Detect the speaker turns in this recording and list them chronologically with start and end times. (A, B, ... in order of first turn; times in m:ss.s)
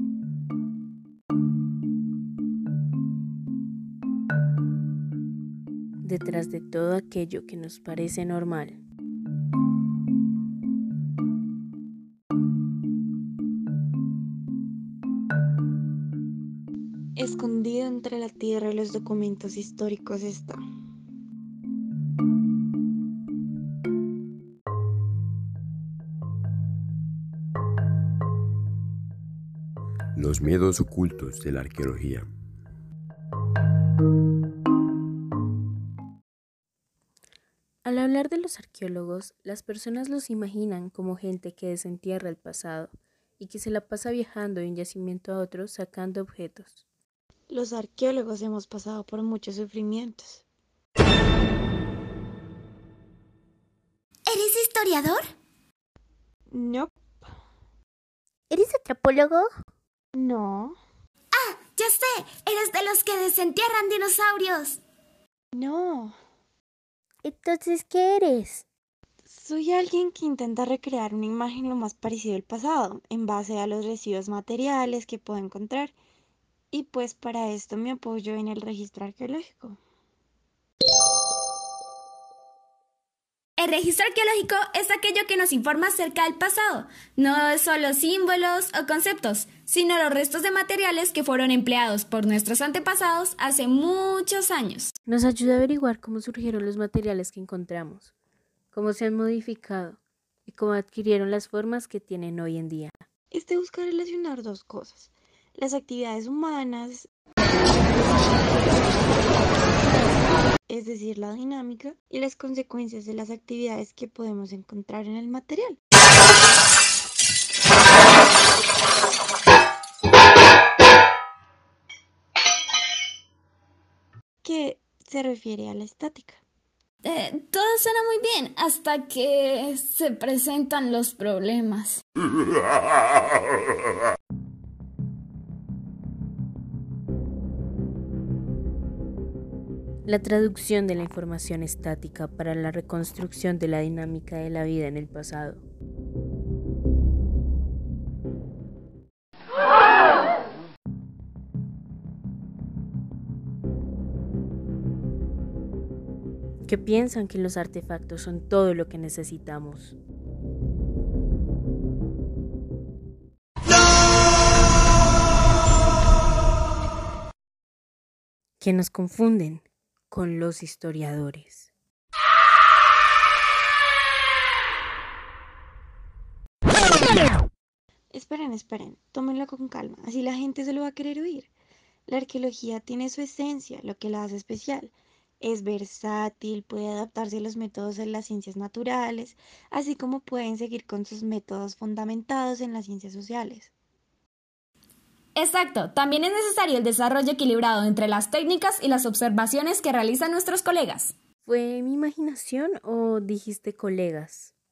0:06.0-0:08.8 A
0:17.2-0:20.6 B
0:30.2-0:32.3 C
0:37.8-0:46.8 A
0:47.5-0:50.4 B
0:54.3-0:55.2 D
0:56.5-0:56.9 B
0:58.5-0:59.5 A
1:00.1-1:00.8 B
1:01.3-1:04.8 D
1:05.5-1:06.2 B
1:07.2-1:08.6 A
1:09.3-1:15.9 B
1:16.7-1:19.8 B
1:23.6-1:34.9 E
1:35.1-1:38.1 A
1:38.7-1:43.0 A
1:43.3-1:47.1 B
1:48.0-1:49.0 B
1:50.7-1:55.8 B
2:04.4-2:06.4 B
2:07.0-2:12.0 E
2:20.1-2:25.6 A
2:36.7-2:40.0 A
2:48.6-2:51.7 A
2:58.1-3:01.5 B
3:02.1-3:13.7 B
3:15.4-3:21.1 E
3:21.4-3:24.5 A